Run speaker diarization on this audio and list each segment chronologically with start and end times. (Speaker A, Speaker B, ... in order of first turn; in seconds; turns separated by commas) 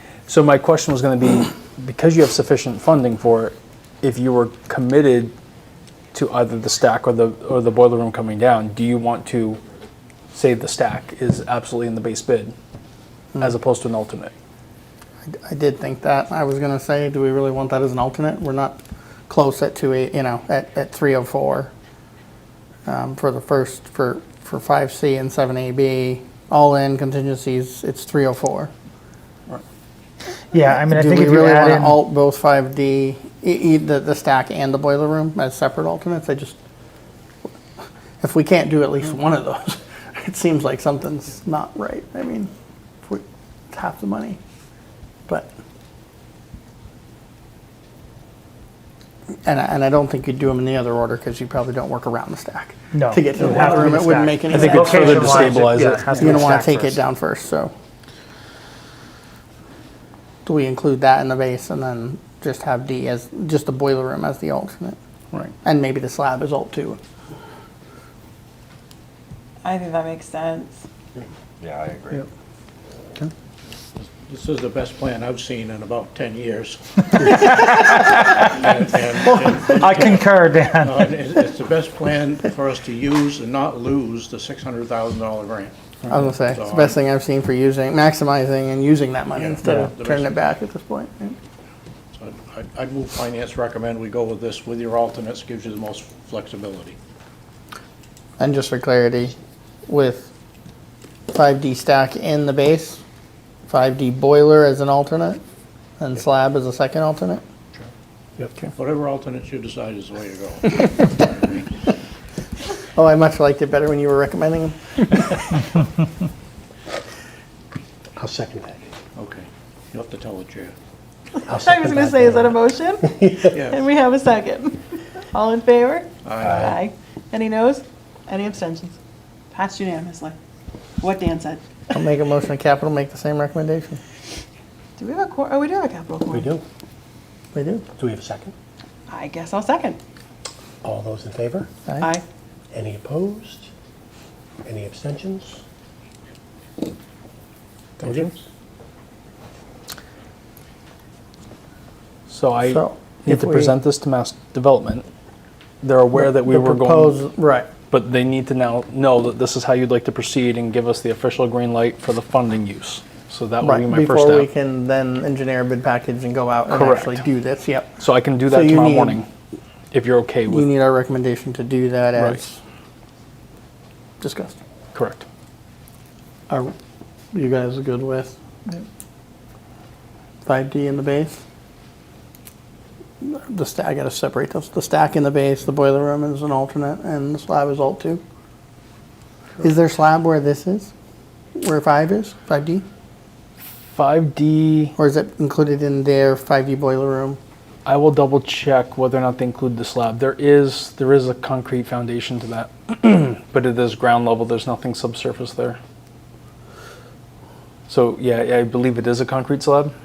Speaker A: 0.3-5.3, Speaker A: 6.1-9.6, Speaker A: 10.3-12.5, Speaker A: 13.4-14.3, Speaker B: 15.3-21.7, Speaker B: 22.9-28.7, Speaker C: 30.5-32.0, Speaker B: 30.7-36.6, Speaker B: 38.2-42.5, Speaker B: 43.0-44.4, Speaker B: 49.5-57.7, Speaker C: 52.9-57.0, Speaker A: 54.5-56.5, Speaker B: 60.5-65.0, Speaker B: 65.6-67.0, Speaker D: 69.6-70.8, Speaker E: 71.6-72.1, Speaker F: 74.0-77.8, Speaker C: 77.2-78.6, Speaker F: 78.5-85.8, Speaker C: 79.7-81.0, Speaker B: 86.1-91.4, Speaker F: 86.4-87.0, Speaker F: 89.3-90.3, Speaker F: 92.1-97.0, Speaker B: 98.4-99.3, Speaker B: 99.9-100.3, Speaker B: 101.3-103.0, Speaker B: 103.7-105.4, Speaker B: 106.0-107.4, Speaker F: 108.7-111.7, Speaker B: 112.9-115.7, Speaker E: 118.2-118.8, Speaker F: 119.2-120.7, Speaker D: 121.4-129.0, Speaker E: 121.5-122.5, Speaker E: 123.0-123.5, Speaker F: 123.5-123.8, Speaker F: 126.2-126.7, Speaker E: 126.4-126.8, Speaker D: 129.5-130.4, Speaker D: 131.0-131.6, Speaker B: 131.9-134.0, Speaker D: 135.0-136.5, Speaker E: 136.3-136.6, Speaker B: 137.5-137.9, Speaker E: 138.0-138.5, Speaker D: 139.1-140.0, Speaker E: 140.8-141.7, Speaker E: 142.7-143.7, Speaker E: 144.7-145.6, Speaker E: 148.0-148.3, Speaker A: 152.3-155.1, Speaker B: 152.6-153.8, Speaker A: 155.8-157.2, Speaker B: 156.2-157.7, Speaker A: 157.9-164.5, Speaker B: 163.6-169.2, Speaker A: 166.7-167.2, Speaker A: 168.0-169.3, Speaker A: 169.9-170.7, Speaker B: 170.5-172.6, Speaker B: 174.2-174.6, Speaker A: 174.9-175.2, Speaker B: 177.3-178.8, Speaker B: 180.4-181.4, Speaker B: 183.2-188.2, Speaker B: 189.6-190.9, Speaker B: 191.6-192.8, Speaker A: 193.9-194.9, Speaker B: 195.0-197.4, Speaker A: 197.9-205.8, Speaker A: 207.9-209.9